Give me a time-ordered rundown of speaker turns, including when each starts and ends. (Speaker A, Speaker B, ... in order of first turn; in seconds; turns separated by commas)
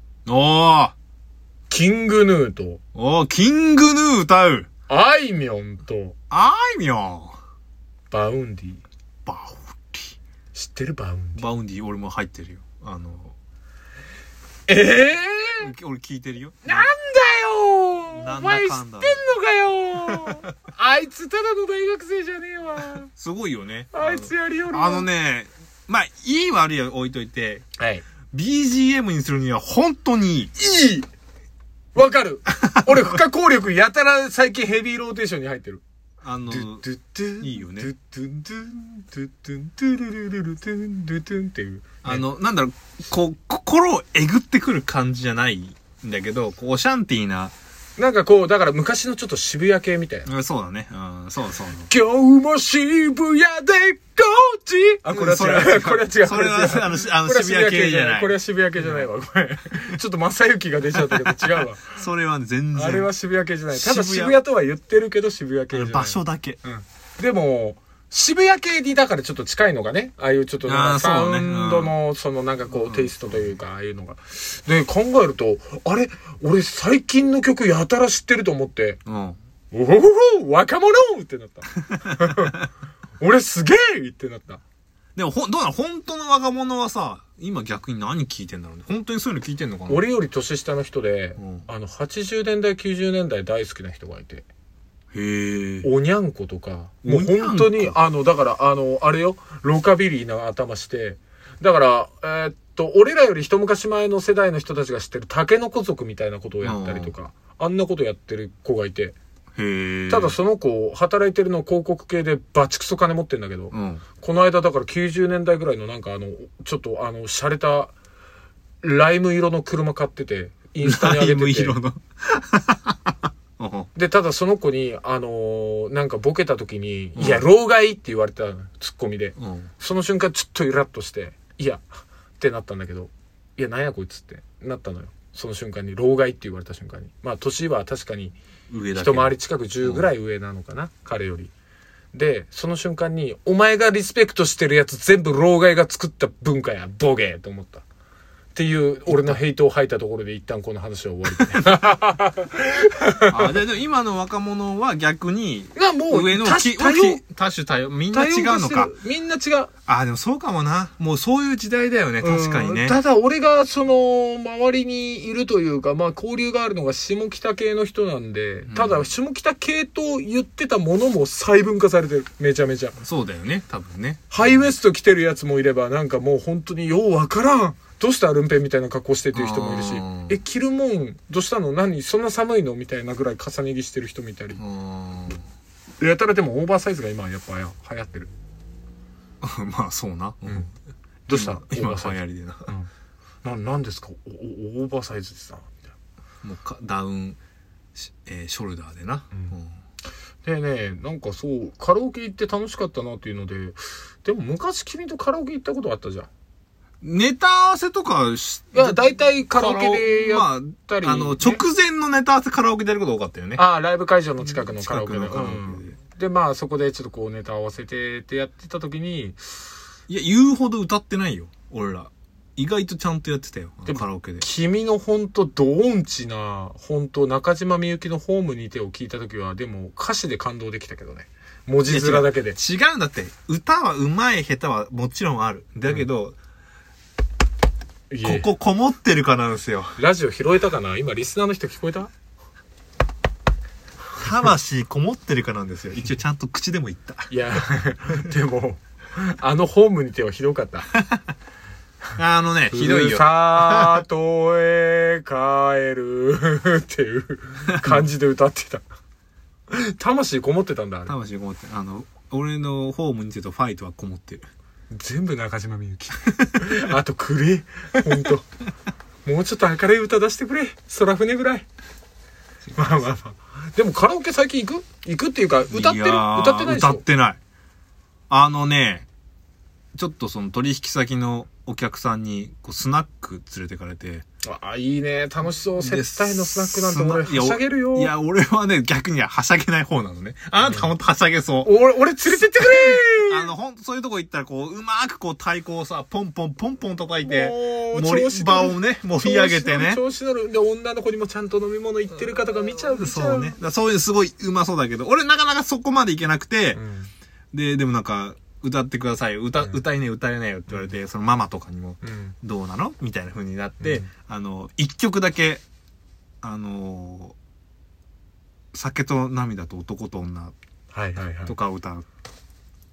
Speaker A: 0.2-0.9, Speaker B: 1.7-2.8, Speaker A: 2.9-4.7, Speaker B: 4.9-6.1, Speaker A: 6.3-7.4, Speaker B: 8.1-8.8, Speaker A: 9.2-10.2, Speaker B: 10.5-11.4, Speaker A: 11.3-13.3, Speaker B: 14.7-15.7, Speaker A: 15.6-16.9, Speaker B: 16.6-23.1, Speaker A: 18.1-19.2, Speaker A: 20.1-20.4, Speaker A: 23.1-27.6, Speaker B: 23.9-25.1, Speaker B: 27.8-28.0, Speaker A: 28.3-30.5, Speaker B: 30.6-31.1, Speaker B: 31.9-35.8, Speaker A: 36.2-36.8, Speaker B: 36.5-42.2, Speaker A: 37.4-37.9, Speaker A: 42.0-47.5, Speaker B: 48.0-50.3, Speaker A: 50.2-51.9, Speaker B: 51.9-61.9, Speaker A: 55.1-59.1, Speaker A: 61.3-63.1, Speaker B: 62.7-79.0, Speaker A: 63.7-64.4, Speaker A: 65.7-66.6, Speaker A: 70.6-71.9, Speaker A: 72.7-73.5, Speaker A: 79.0-79.4, Speaker B: 79.7-82.6, Speaker B: 83.2-84.6, Speaker A: 85.2-90.0, Speaker B: 89.9-94.5, Speaker A: 91.4-91.7, Speaker A: 95.1-95.9, Speaker B: 95.8-109.1, Speaker A: 97.0-98.0, Speaker A: 106.6-107.1, Speaker A: 109.5-110.3, Speaker B: 110.1-117.9, Speaker A: 113.7-114.0, Speaker B: 118.8-121.8, Speaker A: 120.8-123.9, Speaker B: 123.9-138.3, Speaker A: 127.2-127.5, Speaker A: 129.3-129.7, Speaker A: 138.7-140.1, Speaker B: 138.9-141.5, Speaker B: 142.1-147.8, Speaker B: 148.5-153.5, Speaker A: 149.1-149.4, Speaker A: 153.3-158.9, Speaker B: 155.7-157.2, Speaker B: 158.1-159.7, Speaker A: 159.9-163.0, Speaker B: 162.2-172.9, Speaker A: 168.7-169.1, Speaker A: 173.0-174.7, Speaker B: 174.3-184.6, Speaker A: 179.3-180.4, Speaker A: 184.6-185.4, Speaker B: 186.0-188.3, Speaker A: 189.4-190.7, Speaker B: 191.3-192.9, Speaker A: 191.3-192.7, Speaker B: 193.4-195.8, Speaker A: 196.4-197.4, Speaker A: 197.9-199.7, Speaker B: 200.4-206.3, Speaker A: 207.0-213.6, Speaker B: 208.7-211.6, Speaker B: 213.6-219.4, Speaker A: 214.4-216.0, Speaker A: 220.1-224.4, Speaker B: 223.8-232.6, Speaker A: 231.9-236.3, Speaker B: 238.1-238.5, Speaker A: 238.2-239.9, Speaker B: 239.9-242.1, Speaker A: 244.2-247.3, Speaker B: 247.3-250.9, Speaker A: 252.2-254.0, Speaker B: 252.7-258.8, Speaker B: 259.7-261.1, Speaker A: 261.1-264.4, Speaker B: 264.9-268.4, Speaker B: 269.2-271.6, Speaker B: 272.7-277.0, Speaker A: 275.7-277.4, Speaker A: 278.3-279.1, Speaker A: 279.9-284.2, Speaker B: 284.4-288.1, Speaker A: 285.8-291.7, Speaker B: 291.6-293.5, Speaker A: 292.6-300.0, Speaker B: 297.2-303.6, Speaker A: 302.9-306.8, Speaker B: 306.7-307.1, Speaker A: 307.5-315.6, Speaker B: 312.0-312.3, Speaker B: 313.8-314.1, Speaker A: 316.4-317.3, Speaker A: 318.7-320.5, Speaker B: 320.9-321.5, Speaker A: 321.4-322.0